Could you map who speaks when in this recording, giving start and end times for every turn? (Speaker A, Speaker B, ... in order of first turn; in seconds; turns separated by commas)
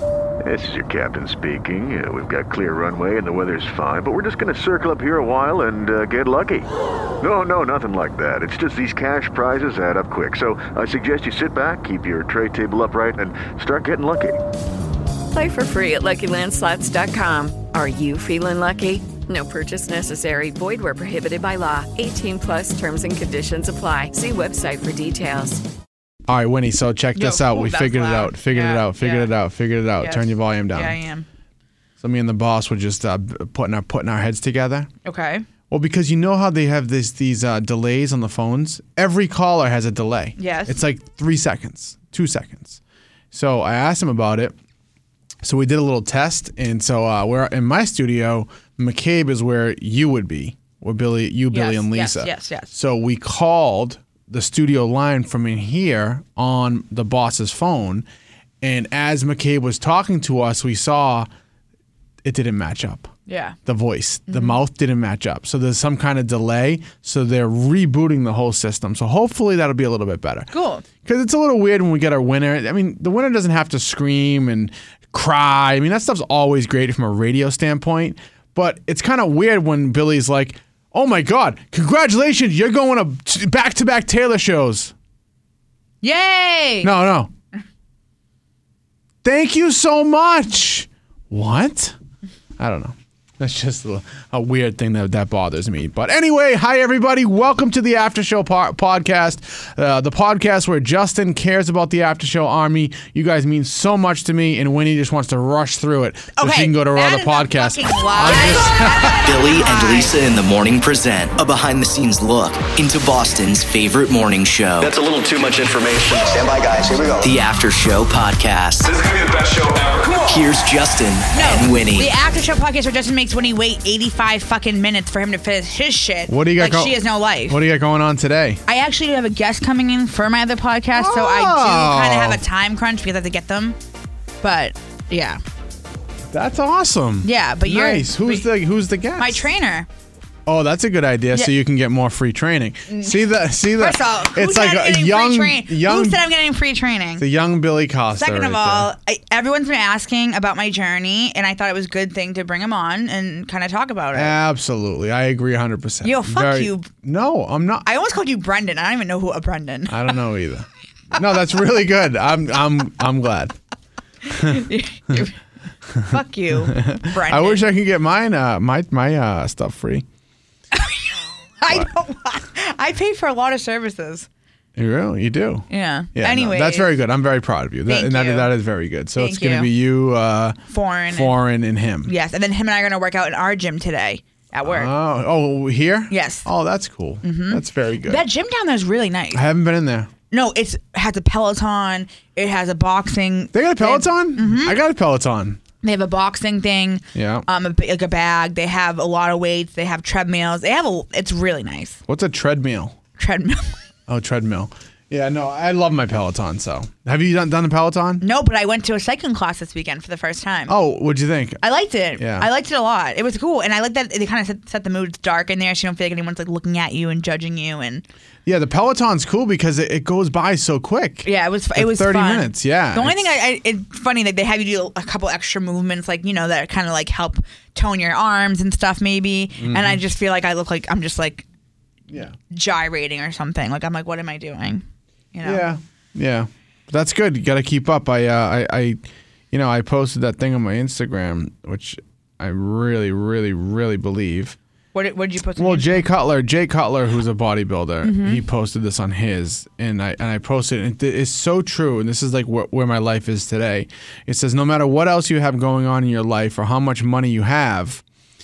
Speaker A: 0.5-6.7, Speaker A: 7.2-14.4, Speaker B: 15.3-25.6, Speaker C: 26.3-31.0, Speaker D: 27.1-29.3, Speaker D: 30.0-31.2, Speaker C: 32.0-34.9, Speaker D: 35.0-35.5, Speaker C: 35.7-42.8, Speaker D: 40.4-40.8, Speaker C: 43.3-44.5, Speaker C: 45.4-58.0, Speaker D: 51.5-52.7, Speaker C: 58.6-61.3, Speaker C: 62.2-63.1, Speaker D: 63.3-63.6, Speaker C: 63.6-70.5, Speaker D: 64.3-64.6, Speaker D: 70.5-70.8, Speaker C: 71.0-84.9, Speaker D: 86.0-86.9, Speaker C: 86.8-87.3, Speaker C: 89.2-91.9, Speaker C: 92.6-109.3, Speaker D: 106.3-110.2, Speaker E: 109.2-115.0, Speaker F: 114.7-117.5, Speaker E: 117.2-119.0, Speaker F: 118.8-120.5, Speaker E: 120.2-122.1, Speaker D: 121.3-127.6, Speaker F: 121.4-121.7, Speaker C: 126.3-128.6, Speaker D: 128.7-133.8, Speaker C: 130.9-132.4, Speaker D: 134.4-135.4, Speaker C: 136.3-139.5, Speaker D: 137.2-138.5, Speaker D: 139.2-139.9, Speaker C: 140.4-146.3, Speaker D: 142.9-147.2, Speaker C: 147.2-148.9, Speaker D: 148.1-154.3, Speaker C: 154.1-157.8, Speaker D: 156.0-156.9, Speaker D: 157.8-160.1, Speaker C: 159.9-163.5, Speaker C: 164.3-165.2, Speaker D: 164.3-165.4, Speaker D: 166.0-167.7, Speaker C: 166.6-170.0, Speaker D: 170.7-174.3, Speaker C: 174.8-180.6, Speaker D: 175.7-176.9, Speaker D: 177.9-178.5, Speaker D: 179.2-179.7, Speaker D: 180.7-181.4, Speaker C: 181.1-182.1, Speaker D: 182.0-184.9, Speaker C: 184.6-188.2, Speaker D: 186.1-186.5, Speaker D: 187.2-189.4, Speaker C: 189.3-190.1, Speaker D: 190.3-194.8, Speaker C: 193.5-195.6, Speaker D: 195.8-202.0, Speaker C: 197.1-197.4, Speaker C: 202.1-202.9, Speaker D: 203.2-203.7, Speaker C: 204.1-208.2, Speaker D: 208.2-210.8, Speaker C: 210.7-211.6, Speaker D: 211.6-218.0, Speaker C: 212.2-212.5, Speaker C: 218.4-223.3, Speaker D: 221.2-231.4, Speaker C: 229.6-230.0, Speaker C: 232.1-232.3, Speaker D: 232.5-234.8, Speaker D: 235.3-235.7, Speaker C: 235.4-239.0, Speaker C: 239.5-244.6, Speaker D: 244.9-246.1, Speaker C: 245.6-258.0, Speaker D: 248.0-248.4